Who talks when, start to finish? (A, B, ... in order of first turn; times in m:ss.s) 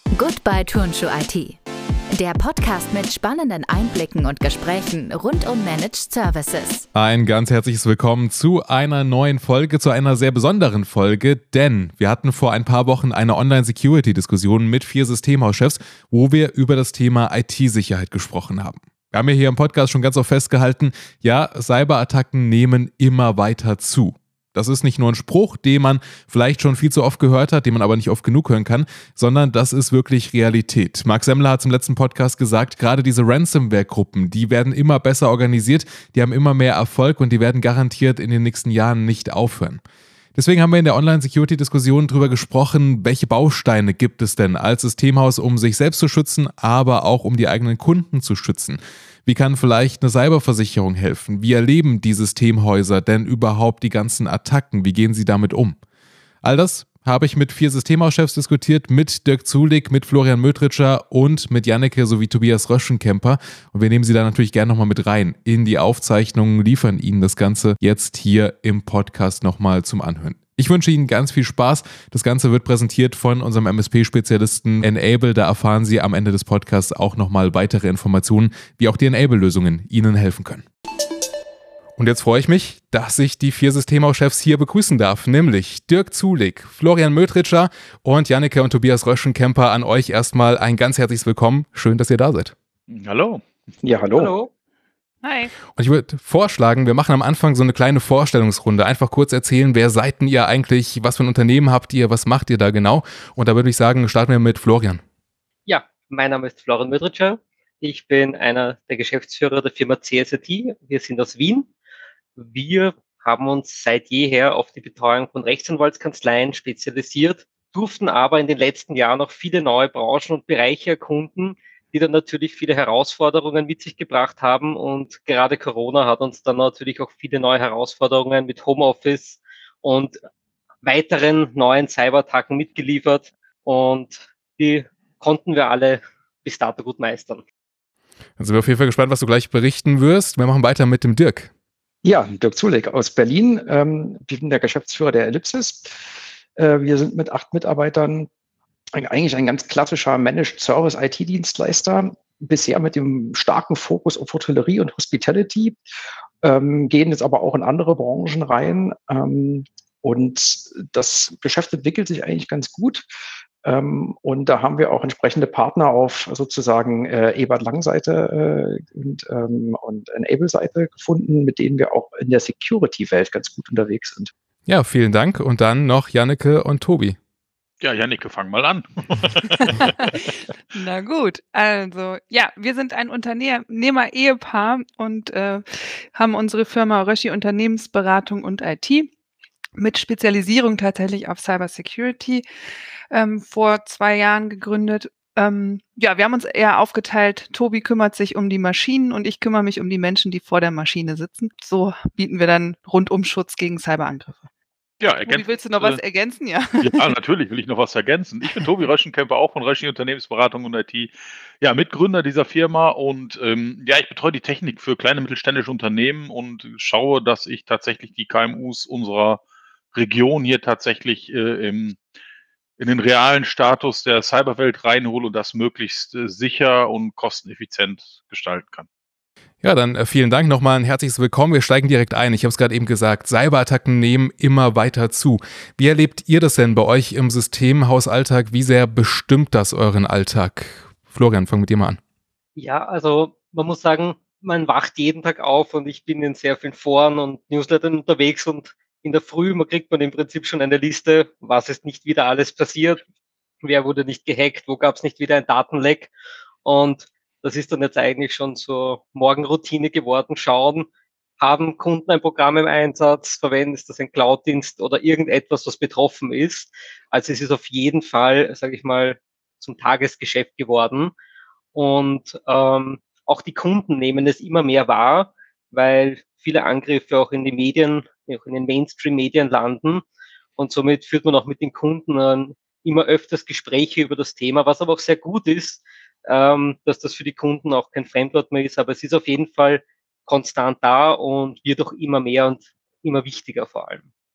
0:00.2-0:01.6 A
0:02.1-0:06.9 A
0:06.9-0:39.8 B
0:40.4-0:55.8 B
0:56.4-1:20.7 B
1:22.0-1:32.5 B
1:32.9-1:33.4 C
1:33.8-1:34.3 D
1:34.2-1:34.5 E
1:35.2-1:35.5 F
1:35.8-1:45.0 B
1:45.7-1:51.7 E
1:52.4-2:10.2 E
2:10.8-2:17.4 E
2:18.4-2:21.5 B
2:22.0-2:26.0 D
2:26.6-2:28.3 D
2:29.0-2:35.8 D
2:36.4-2:43.1 D
2:43.6-2:54.3 D
2:54.7-2:57.2 B
2:57.8-2:59.8 C
2:59.7-3:09.1 F
3:09.8-3:12.4 F
3:13.1-3:24.5 F
3:25.0-3:26.0 C
3:25.3-3:27.0 F
3:26.8-3:39.4 C
3:39.9-3:42.0 C
3:42.8-3:48.9 C
3:49.6-4:02.0 B
4:02.6-4:13.0 E
4:13.6-4:16.1 E
4:16.6-4:20.9 E
4:21.4-4:31.1 E
4:31.8-4:40.0 E
4:40.6-4:54.0 E